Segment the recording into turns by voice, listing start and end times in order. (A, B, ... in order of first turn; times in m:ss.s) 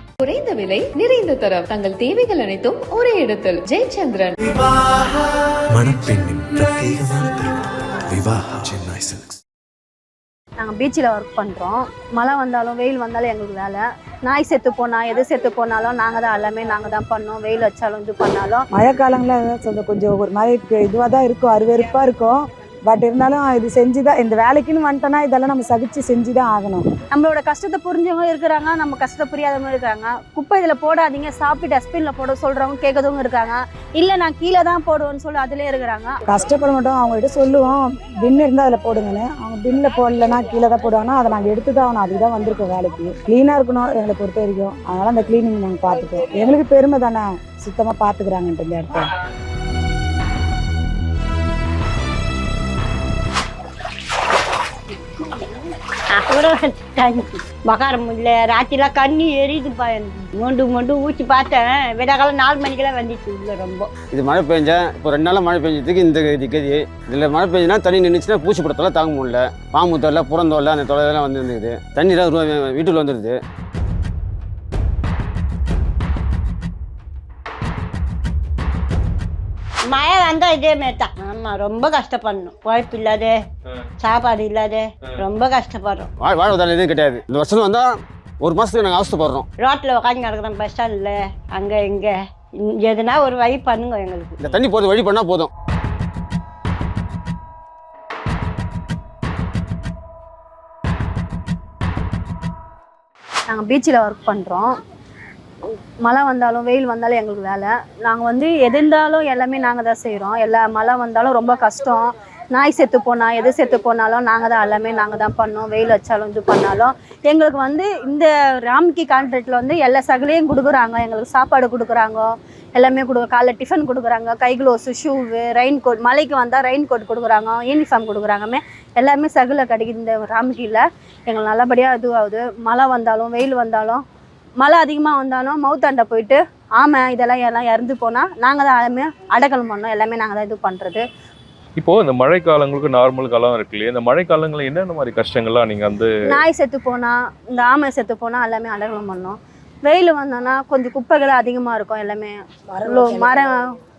0:00.2-0:04.3 A
0:05.7-0:09.4 B
0:10.6-0:18.7 C
0:18.7-0:22.3 D
0:22.9-0:26.8 D
0:27.1-0:36.2 C
0:36.2-0:49.0 D
0:56.1-1:03.9 E
1:04.1-1:13.4 F
1:19.9-1:23.3 E
1:24.0-1:26.1 E
1:26.2-1:29.4 F
1:29.6-1:34.4 E
1:34.4-1:35.5 F
1:43.5-1:44.7 C
1:46.0-2:14.0 C
2:14.6-2:21.0 C
2:21.8-2:26.1 G
2:26.3-2:33.6 C
2:32.7-2:33.5 D